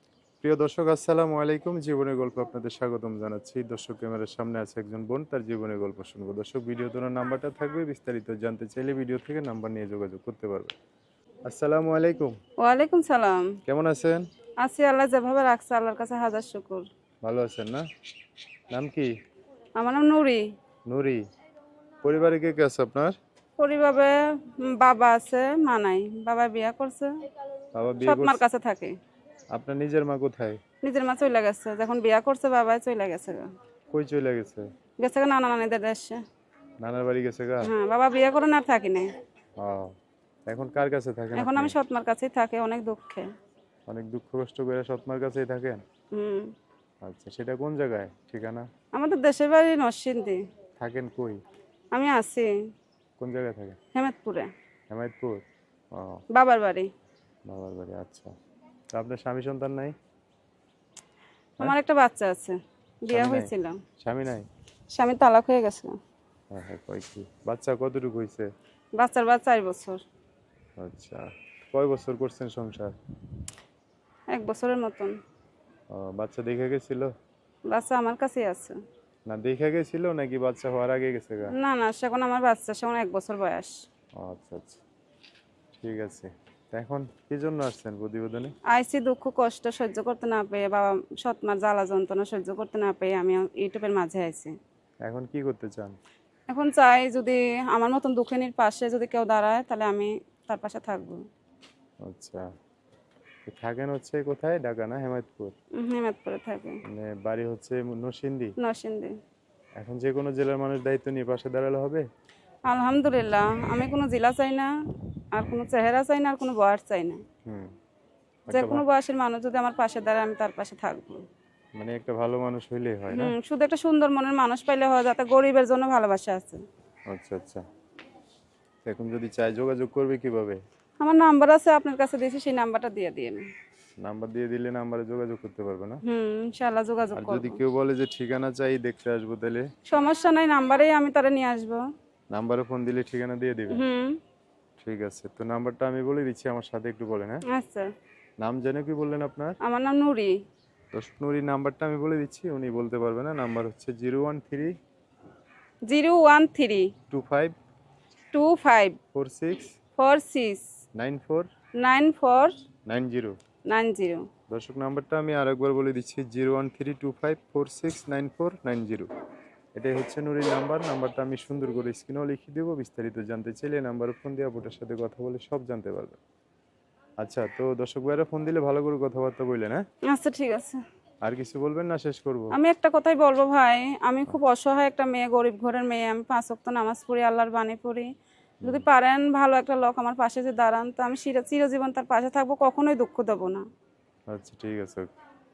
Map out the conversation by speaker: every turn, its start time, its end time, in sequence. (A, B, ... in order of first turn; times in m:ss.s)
0:00.4-0:10.7 A
0:11.4-0:12.3 A
0:12.6-0:13.6 B
0:13.6-0:14.2 A
0:14.6-0:16.8 B
0:17.2-0:17.8 A
0:18.7-0:19.1 A
0:19.8-0:20.4 B
0:20.9-0:21.2 A
0:22.0-0:23.1 A
0:23.6-0:27.1 B
0:27.7-0:28.4 A
0:28.0-0:28.9 B
0:29.5-0:30.6 A
0:30.8-0:33.4 B
0:33.9-0:34.6 A
0:35.0-0:36.2 B
0:36.8-0:37.7 A
0:37.6-0:39.1 B
0:39.6-0:39.9 A
0:40.5-0:41.8 A
0:41.4-0:43.3 B
0:43.9-0:45.8 A
0:46.1-0:46.5 B
0:47.0-0:48.6 A
0:48.9-0:50.4 B
0:50.8-0:51.4 A
0:51.9-0:52.5 B
0:53.2-0:53.8 A
0:53.9-0:54.5 B
0:54.9-0:55.4 A
0:55.9-0:56.2 A
0:56.3-0:56.9 B
0:57.5-0:58.3 A
0:58.9-0:59.9 A
1:01.6-1:03.8 B
1:03.1-1:04.4 A
1:04.9-1:06.0 B
1:06.5-1:08.5 A
1:09.0-1:10.0 B
1:10.8-1:12.9 A
1:14.3-1:15.2 B
1:15.9-1:17.1 A
1:17.7-1:18.8 B
1:19.3-1:21.5 A
1:21.5-1:23.8 B
1:24.2-1:24.8 A
1:25.8-1:28.5 A
1:28.7-1:34.5 B
1:35.0-1:36.0 A
1:36.5-1:41.2 B
1:42.0-1:42.4 A
1:43.5-1:45.5 A
1:45.8-1:46.8 B
1:46.9-1:48.5 A
1:48.6-1:49.1 B
1:49.8-1:52.0 A
1:52.7-1:54.7 B
1:55.3-1:57.2 B
1:58.5-1:58.8 A
1:58.5-2:01.2 B
2:01.8-2:03.3 A
2:03.1-2:06.6 B
2:07.1-2:07.6 A
2:08.8-2:10.6 A
2:11.0-2:13.5 B
2:14.0-2:16.0 A
2:16.0-2:17.6 B
2:17.1-2:19.7 A
2:19.9-2:21.8 B
2:22.3-2:23.8 A
2:23.7-2:24.2 B
2:24.8-2:27.4 A
2:27.5-2:27.9 B
2:28.4-2:29.5 A
2:29.6-2:30.3 B
2:30.9-2:34.7 A
2:35.8-2:36.9 B
2:37.1-2:37.5 A
2:38.3-2:39.0 B
2:39.1-2:39.7 A
2:40.0-2:40.7 B
2:41.0-2:41.5 A
2:41.8-2:42.5 B
2:42.9-2:43.4 A
2:43.7-2:44.2 B
2:44.5-2:49.1 A
2:49.8-2:56.2 A
2:57.2-2:59.8 A
3:00.1-3:00.8 B
3:01.2-3:02.5 A
3:02.5-3:08.1 B
3:08.6-3:13.6 B
3:14.3-3:15.0 A